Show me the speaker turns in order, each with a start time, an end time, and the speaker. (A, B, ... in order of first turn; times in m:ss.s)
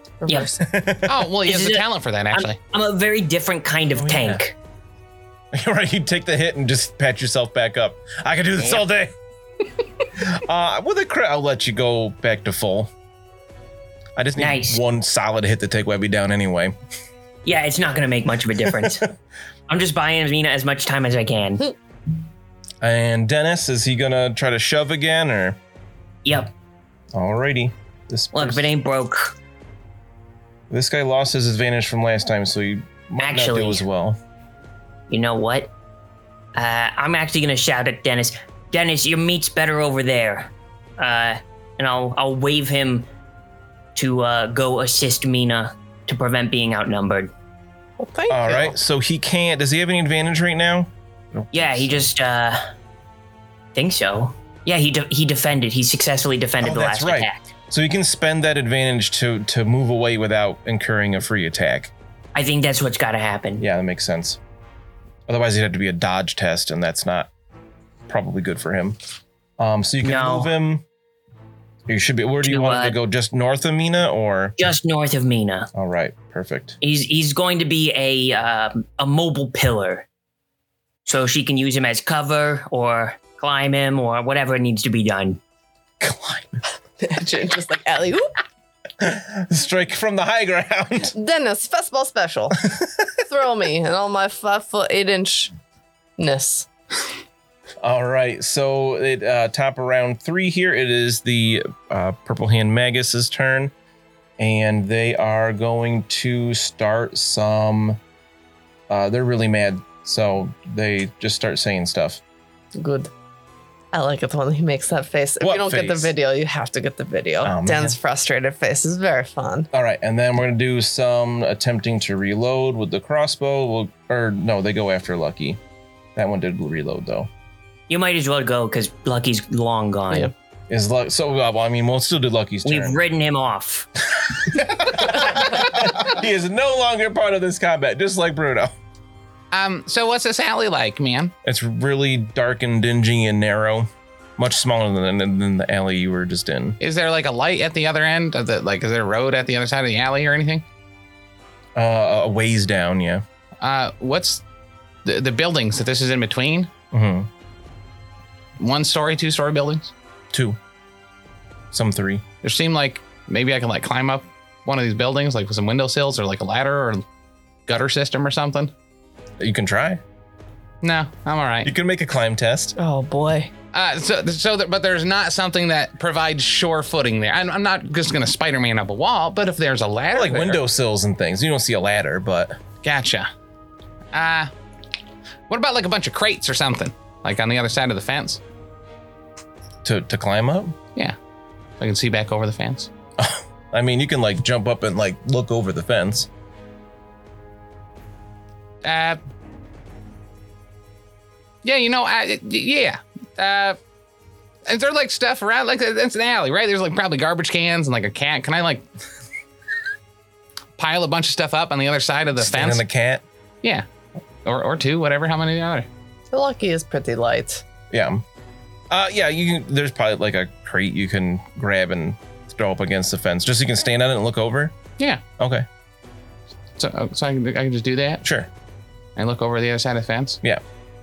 0:00.2-0:00.6 A
0:00.6-0:01.3 B
0:01.1-0:02.6 C
0:01.4-0:04.6 D
0:04.0-0:04.4 B
0:05.5-0:09.1 B
0:08.6-0:08.8 D
0:10.2-0:12.9 B
0:14.2-0:16.7 B
0:14.4-0:14.8 D
0:17.4-0:19.1 D
0:19.7-0:21.7 D
0:22.8-0:25.6 B
0:26.2-0:26.5 D
0:27.1-0:28.7 B
0:28.3-0:29.3 D
0:30.7-0:34.2 B
0:33.2-0:33.8 D
0:35.1-0:35.7 D
0:36.6-0:43.1 D
0:44.0-0:47.3 D
0:48.0-0:48.7 A
0:48.3-0:52.1 B
0:51.5-0:52.7 D
0:53.7-0:57.5 D
0:56.6-1:01.9 B
1:02.3-1:03.6 D
1:03.6-1:04.4 B
1:05.3-1:07.3 B
1:08.1-1:09.0 B
1:09.6-1:10.8 B
1:10.0-1:10.5 D
1:11.9-1:14.6 B
1:12.4-1:13.0 D
1:14.6-1:15.7 D
1:15.7-1:16.8 B
1:16.8-1:20.0 D
1:21.0-1:25.4 D
1:26.0-1:26.6 B
1:27.0-1:28.3 A
1:29.0-1:31.1 B
1:31.1-1:32.6 A
1:32.6-1:33.0 B
1:33.3-1:35.5 A
1:36.2-1:36.7 A
1:37.8-1:43.7 B
1:44.4-1:48.0 B
1:48.9-1:52.2 B
1:52.7-1:53.1 A
1:53.9-1:59.7 A
1:55.4-1:56.1 B
1:57.4-1:58.0 B
1:59.7-2:05.6 B
2:06.2-2:07.3 B
2:07.9-2:10.3 D
2:10.7-2:13.0 B
2:12.6-2:13.9 D
2:14.3-2:18.7 B
2:19.5-2:21.3 C
2:21.4-2:26.8 B
2:26.8-2:30.6 C
2:31.8-2:33.2 B
2:33.6-2:34.4 C
2:35.0-2:36.7 C
2:36.9-2:37.3 B
2:38.6-2:39.9 C
2:41.7-2:42.2 B
2:42.4-2:47.0 C
2:47.7-2:48.7 C
2:49.4-2:50.0 B
2:50.8-2:51.7 C
2:51.6-2:52.7 B
2:52.8-2:53.5 A
2:53.7-3:00.6 C
3:00.1-3:02.6 B
3:02.8-3:03.3 C
3:04.1-3:04.5 C
3:05.5-3:08.4 C
3:09.8-3:10.7 B
3:11.8-3:12.9 C
3:13.2-3:16.3 B
3:18.8-3:19.2 C
3:21.6-3:23.8 C
3:24.7-3:28.8 C
3:30.8-3:32.8 C
3:32.4-3:33.2 B
3:34.4-3:35.9 C
3:36.3-3:37.6 A
3:37.9-3:38.2 B
3:38.9-3:44.8 B
3:45.4-3:45.7 B
3:46.8-3:48.2 C
3:48.2-3:48.5 B
3:49.2-3:50.4 C